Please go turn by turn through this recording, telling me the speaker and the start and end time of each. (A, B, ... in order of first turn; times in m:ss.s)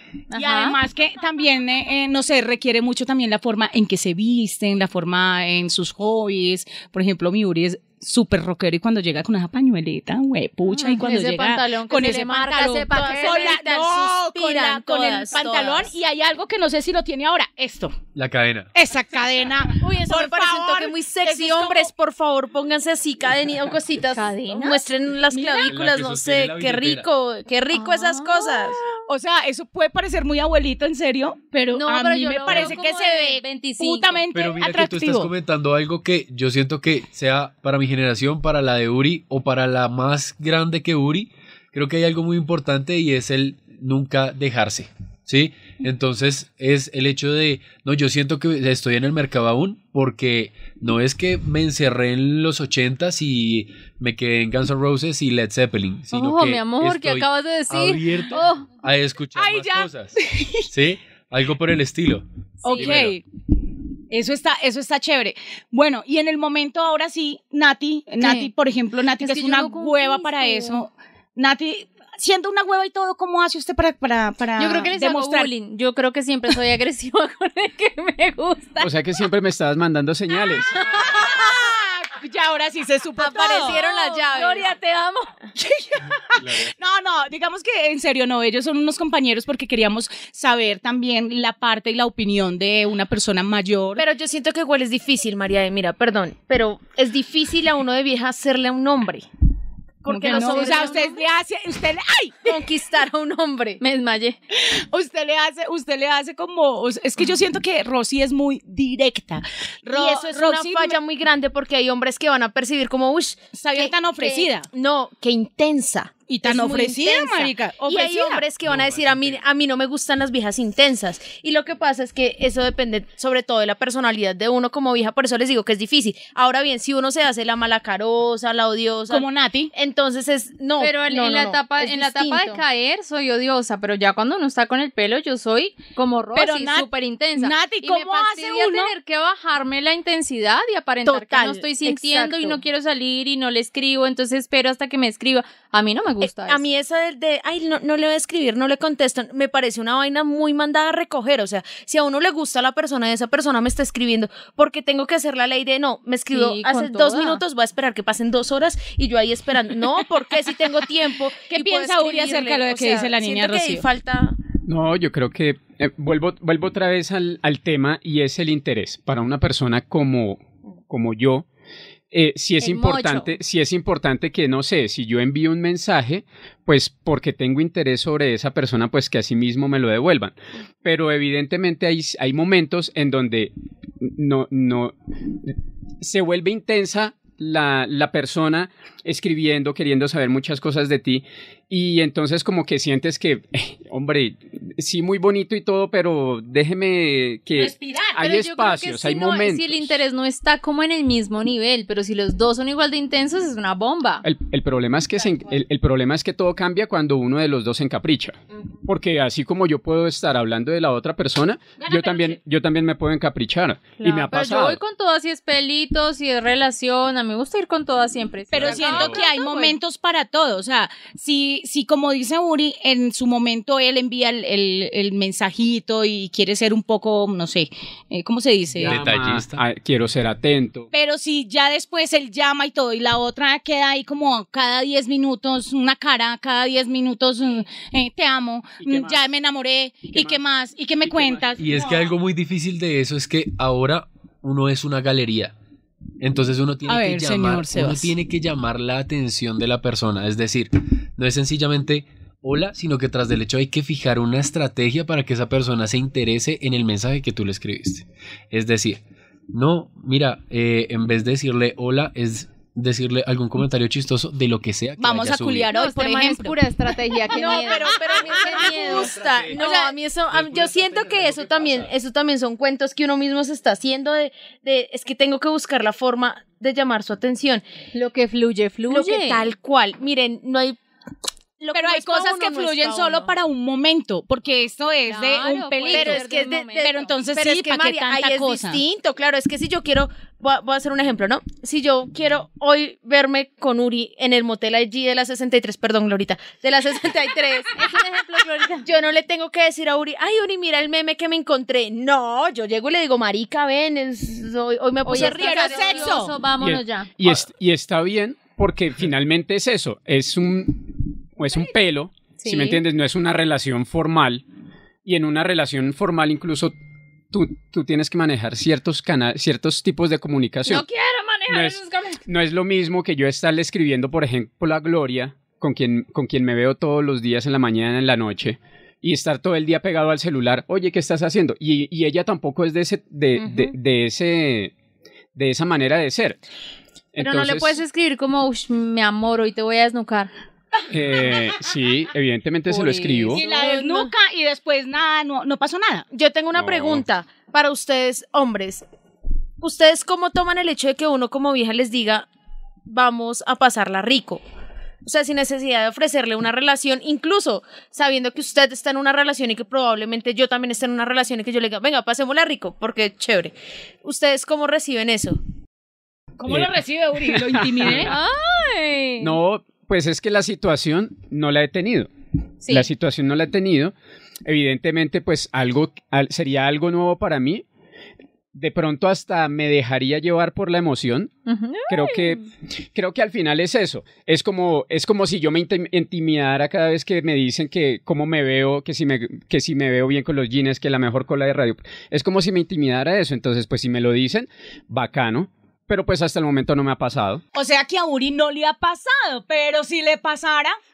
0:00.3-0:00.8 A
0:00.3-0:18.0 B
0:10.7-0:13.6 A
0:12.9-0:15.9 C
0:18.1-0:18.7 D
0:18.7-0:21.9 B
0:19.8-0:28.8 C
0:24.0-0:24.8 A
0:25.6-0:27.1 D
0:27.7-0:28.8 A
0:29.0-0:35.3 B
0:31.7-0:34.2 A
0:34.3-1:03.2 D
0:56.1-0:58.7 A
0:59.3-1:00.6 B
1:02.6-1:02.9 A
1:02.6-1:03.2 B
1:04.1-1:15.5 B
1:08.2-1:08.5 A
1:09.2-1:10.8 A
1:14.6-1:18.9 A
1:18.8-1:20.8 E
1:20.8-1:21.3 A
1:20.9-1:23.8 B
1:23.2-1:24.7 C
1:23.5-1:25.3 A
1:24.4-1:24.7 B
1:25.6-1:34.1 B
1:26.4-1:26.7 E
1:34.0-1:39.2 C
1:40.0-1:41.2 C
1:40.1-1:42.6 B
1:40.2-1:41.2 A
1:42.4-1:43.8 C
1:43.8-1:44.4 A
1:44.5-1:51.0 B
1:49.9-2:12.6 C
1:53.5-1:54.7 B
1:56.3-1:58.4 B
1:58.8-1:59.0 E
2:09.1-2:09.7 B
2:10.8-2:26.6 A
2:16.3-2:18.9 B
2:21.0-2:22.6 C
2:26.2-2:44.4 C
2:36.3-2:37.4 A
2:41.5-2:43.8 B
2:44.6-2:51.4 E
2:52.1-3:03.5 E
2:52.6-2:53.3 A
3:04.0-3:19.9 E
3:17.6-3:18.2 B
3:18.2-3:24.2 A
3:24.2-3:34.8 E
3:31.8-3:32.4 B
3:34.0-3:39.8 A
3:38.5-3:49.0 B
3:38.5-3:39.1 D
3:48.7-3:49.6 D
3:48.8-3:50.9 E
3:50.9-4:02.1 B
3:58.8-3:59.3 E
4:00.1-4:00.4 E
4:01.0-4:01.4 E
4:01.6-4:05.6 D
4:06.2-4:25.7 D
4:06.9-4:08.1 B
4:25.0-4:26.6 B
4:25.7-4:29.1 A
4:27.3-4:37.6 C
4:27.3-4:29.9 B
4:29.2-4:29.5 E
4:30.3-4:31.6 E
4:30.4-4:30.8 D
4:37.9-4:39.4 A
4:38.9-4:40.8 C
4:41.6-4:43.3 C
4:41.7-4:46.2 B
4:45.1-4:47.1 A
4:45.9-4:57.7 C
4:46.8-4:48.8 B
4:57.8-4:58.9 A
4:58.8-5:06.2 C
5:05.0-5:07.1 A
5:05.2-5:06.4 B
5:06.6-5:14.4 E
5:12.4-5:12.8 A
5:15.0-5:16.7 E
5:17.3-5:20.8 E
5:20.6-5:22.2 A
5:21.5-5:34.7 E
5:35.3-5:36.4 E
5:37.1-5:37.8 E
5:37.2-5:40.3 A
5:40.9-5:43.4 E
5:42.7-5:44.1 A
5:43.3-5:46.0 B
5:46.1-5:48.8 C
5:46.6-5:47.0 E
5:49.6-5:52.3 C
5:52.9-5:54.4 C
5:55.0-6:05.4 C
6:06.4-6:08.1 B
6:06.5-6:08.2 E
6:07.8-6:09.4 A
6:09.2-6:12.1 E
6:12.6-6:12.9 A
6:12.7-6:13.9 E
6:14.4-6:17.6 E
6:18.5-6:21.3 E
6:21.5-6:22.4 A
6:21.9-6:37.4 E
6:37.5-6:40.8 B